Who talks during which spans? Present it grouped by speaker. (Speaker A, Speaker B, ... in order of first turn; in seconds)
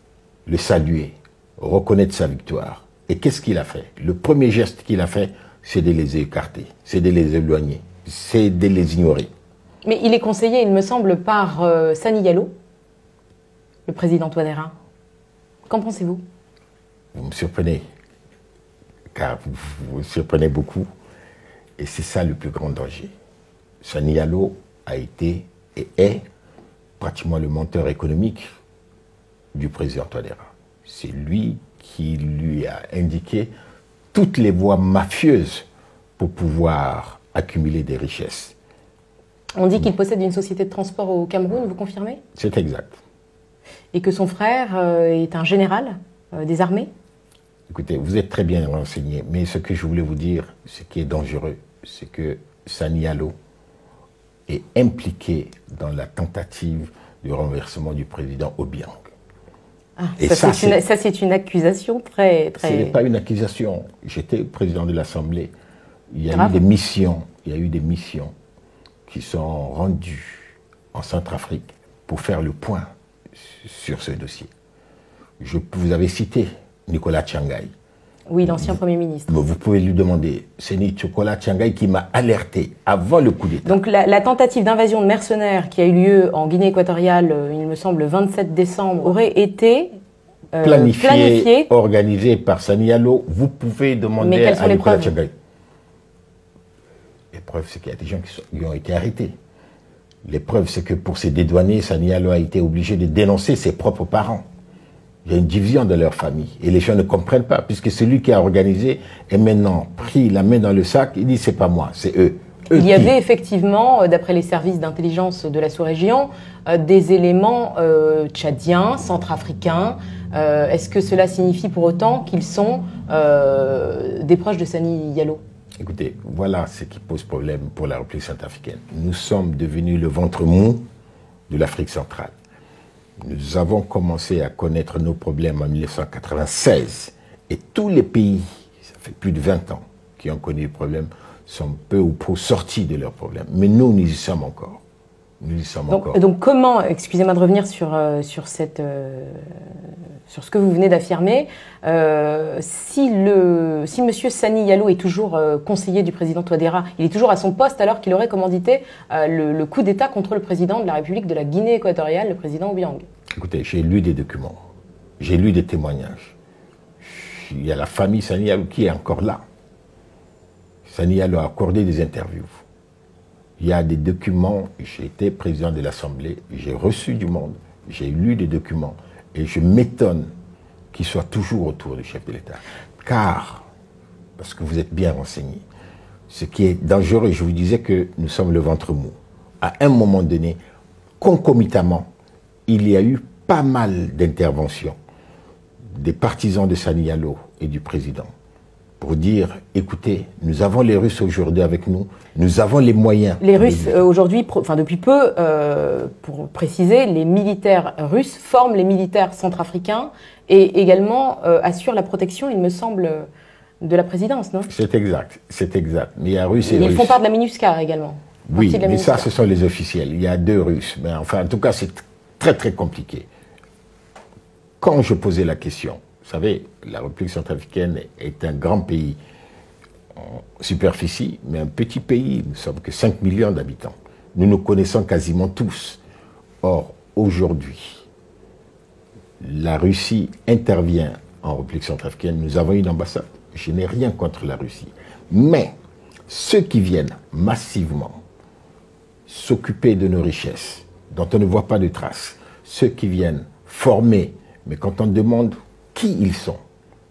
Speaker A: 0.5-9.3, 17.1-17.8, 19.1-20.9, 21.8-23.1, 23.8-26.2, 27.0-28.5, 29.5-33.5, 34.1-35.7, 36.2-38.5, 42.4-43.0, 47.7-53.3, 54.5-59.1, 60.2-60.8, 62.6-65.5, 66.1-68.3, 69.1-74.5, 75.4-77.7, 78.5-83.8, 90.6-95.3, 97.3-99.3, 100.2-104.5, 105.2-113.2, 125.8-130.8, 131.5-132.3, 133.2-144.8, 145.4-146.2, 163.4-164.6, 165.2-166.3, 167.0-169.4, 170.9-172.6, 173.6-180.3, 180.9-183.7, 184.4-185.7, 186.3-190.6, 191.2-192.1, 192.7-195.0, 195.9-198.3, 199.0-204.0, 214.7-217.2, 218.5-223.3, 224.8-229.2, 230.2-236.0, 236.6-238.1, 239.4-245.8, 246.3-248.2, 249.3-256.6
Speaker B: 9.8-12.5, 13.9-14.7, 15.7-16.2, 39.6-42.2, 43.9-46.9, 60.0-63.0, 66.3-66.6, 78.3-79.3, 83.7-90.0, 90.5-91.7, 94.2-95.1, 112.7-125.4, 145.9-149.5, 150.3-163.1, 203.4-213.3, 213.8-214.7, 216.7-219.3